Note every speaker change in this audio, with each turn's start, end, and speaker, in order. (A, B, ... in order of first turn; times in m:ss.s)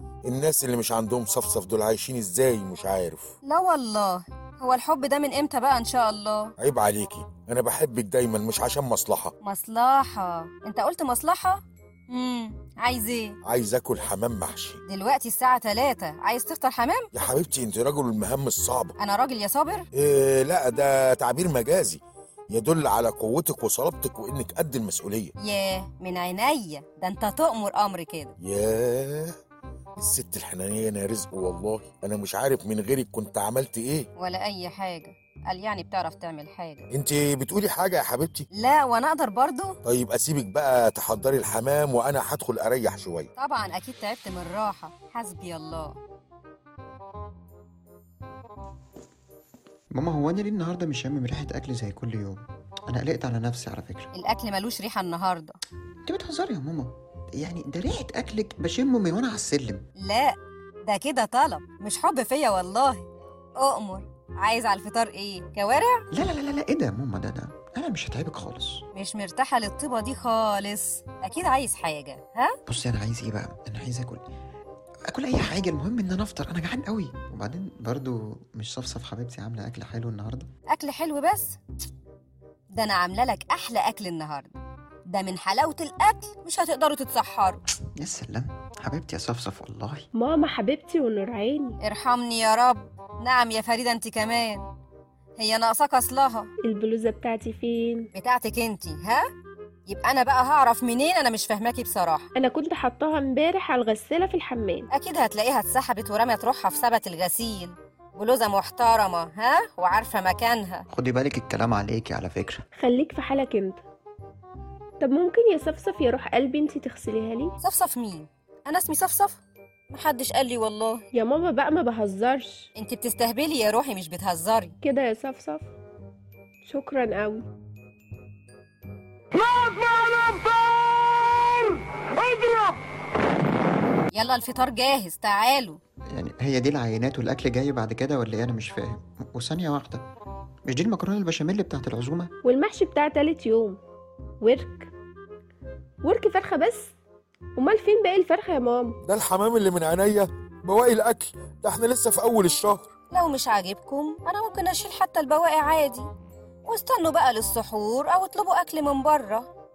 0:00.2-0:03.4 A
0:03.4-0:06.5 B
0:06.6-0:09.3 A
0:09.4-0:13.4 B
0:13.4-0:14.8 A
0:14.8-0:17.1 B
0:17.1-0:19.0 A
0:19.0-0:19.9 B
0:19.9-0:22.0 A
0:22.5-0:25.3 A
0:25.4-0:28.4 B
0:28.4-0:29.4 A
0:30.0-0:34.1 A
0:34.2-0:36.9 B
0:36.9-0:38.5 A
0:38.5-0:39.8 B
0:39.8-0:43.3 A
0:43.4-0:46.0 B
0:50.0-0:54.1 C
0:54.1-0:55.6 B
0:56.0-0:59.9 C
1:00.0-1:03.1 B
1:03.6-1:06.0 B
1:06.1-1:08.8 C
1:08.9-1:12.6 B
1:12.7-1:14.2 C
1:15.1-1:20.5 C
1:20.7-1:21.6 B
1:22.7-1:24.6 B
1:25.1-1:27.6 B
1:28.0-1:30.1 C
1:30.2-1:31.8 D
1:31.8-1:34.6 B
1:35.4-1:36.5 B
1:36.6-1:38.1 D
1:38.1-1:39.2 B
1:39.9-1:42.3 B
1:42.4-1:44.9 D
1:44.9-1:50.9 B
1:50.9-1:52.6 C
1:52.8-1:53.8 D
1:55.0-1:57.6 D
1:57.6-2:01.1 B
2:01.1-2:02.7 D
2:02.8-2:04.8 B
2:04.8-2:05.7 D
2:06.6-2:07.4 D
2:14.1-2:15.8 B
2:16.1-2:20.1 C
2:20.7-2:22.3 C
2:22.4-2:23.8 D
2:24.4-2:24.9 D
2:26.0-2:27.0 D
2:27.6-2:29.0 D
2:29.0-2:32.9 A
2:33.1-2:36.1 B
2:36.6-2:39.5 B